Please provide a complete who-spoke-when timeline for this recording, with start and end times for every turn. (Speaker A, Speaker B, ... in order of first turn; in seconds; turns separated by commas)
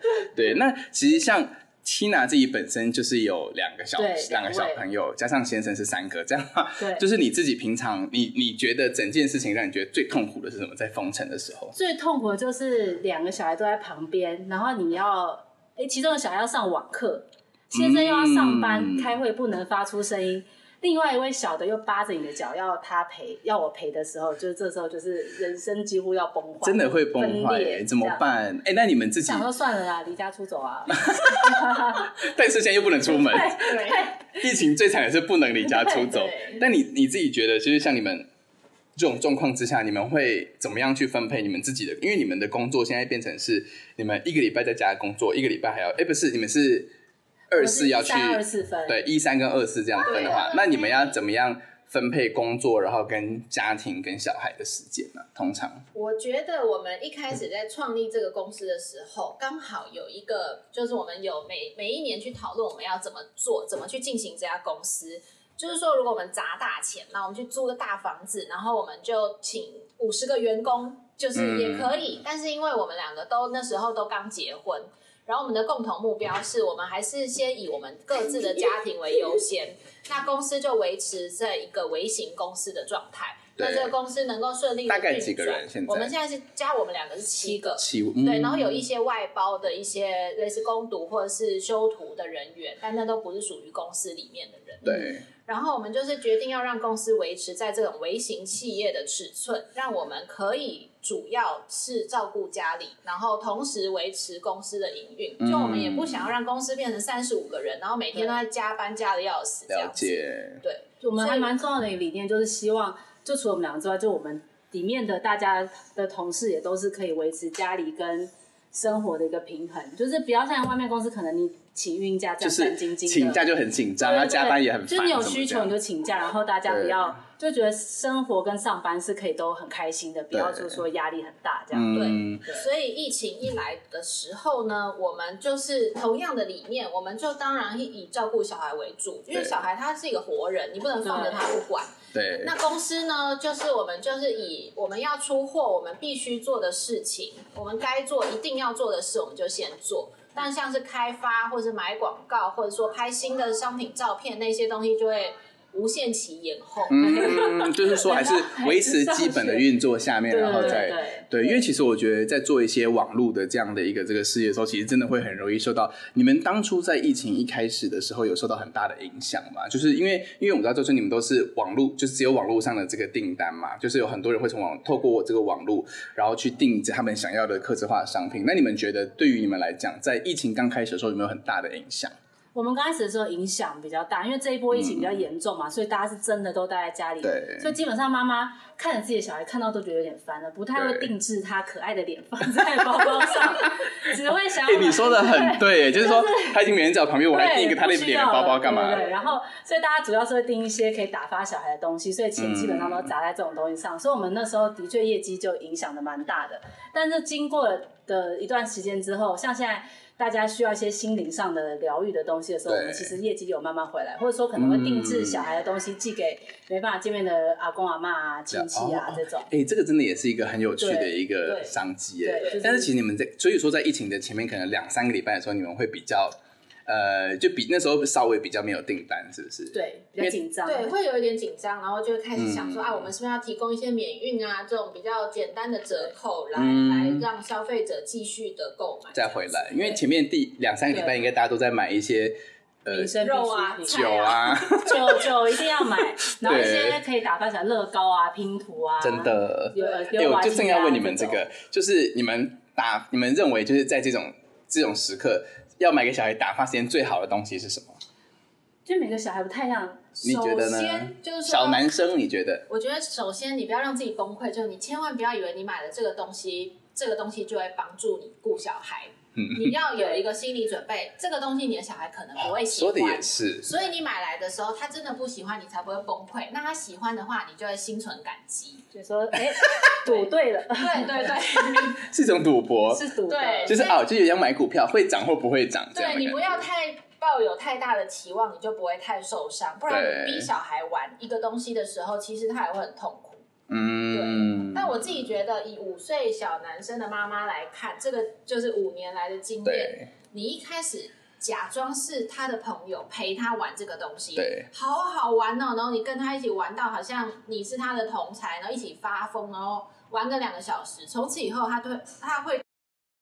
Speaker A: 0.2-11.7, Speaker B: 4.0-4.8, Speaker B: 6.8-7.0, Speaker B: 11.7-28.2, Speaker A: 17.7-19.1, Speaker A: 26.6-29.5, Speaker B: 29.2-32.1, Speaker A: 31.0-38.3, Speaker B: 33.0-34.2, Speaker C: 35.9-36.6, Speaker A: 39.0-46.9, Speaker A: 47.5-55.8, Speaker B: 47.5-49.0, Speaker C: 50.0-51.2, Speaker C: 55.9-111.5, Speaker A: 71.3-71.9, Speaker A: 83.6-83.9, Speaker A: 84.9-86.1, Speaker A: 87.7-88.8, Speaker A: 94.8-95.2, Speaker A: 105.4-106.3, Speaker B: 108.1-108.4, Speaker A: 109.7-110.6, Speaker B: 111.0-123.4, Speaker A: 122.4-125.7, Speaker B: 124.0-132.7, Speaker A: 126.7-127.2, Speaker A: 130.3-130.8, Speaker A: 131.7-132.4, Speaker C: 131.9-157.5, Speaker A: 139.3-139.6, Speaker B: 141.0-141.4, Speaker A: 142.1-142.5, Speaker A: 156.9-182.1, Speaker B: 156.9-159.7, Speaker B: 160.3-161.5, Speaker C: 160.5-160.8, Speaker B: 182.5-196.6, Speaker A: 184.7-185.2, Speaker A: 187.2-187.7, Speaker A: 190.7-191.1, Speaker A: 194.6-199.1, Speaker B: 197.3-219.5, Speaker A: 202.4-203.1, Speaker A: 212.7-213.2, Speaker A: 214.6-215.4, Speaker A: 218.5-230.3, Speaker B: 220.8-221.2, Speaker C: 221.4-221.7, Speaker B: 222.2-222.9, Speaker B: 229.7-230.9, Speaker C: 230.7-240.0, Speaker A: 232.3-233.1, Speaker A: 236.6-237.3, Speaker A: 239.1-243.2, Speaker B: 242.9-251.5, Speaker C: 243.2-244.8, Speaker A: 243.9-245.2, Speaker A: 246.3-247.0, Speaker A: 249.0-258.0, Speaker B: 258.8-260.2, Speaker A: 260.2-262.7, Speaker C: 260.2-261.9, Speaker C: 262.7-278.8, Speaker A: 269.4-269.7, Speaker B: 269.9-270.2, Speaker A: 272.4-273.7, Speaker B: 278.9-281.4, Speaker C: 280.0-282.0, Speaker A: 281.8-283.1, Speaker B: 282.9-283.8, Speaker C: 283.3-284.0, Speaker A: 283.6-286.6, Speaker C: 285.9-293.4, Speaker A: 289.9-290.5, Speaker A: 293.7-295.1, Speaker C: 294.1-312.9, Speaker A: 299.6-300.1, Speaker A: 304.3-304.7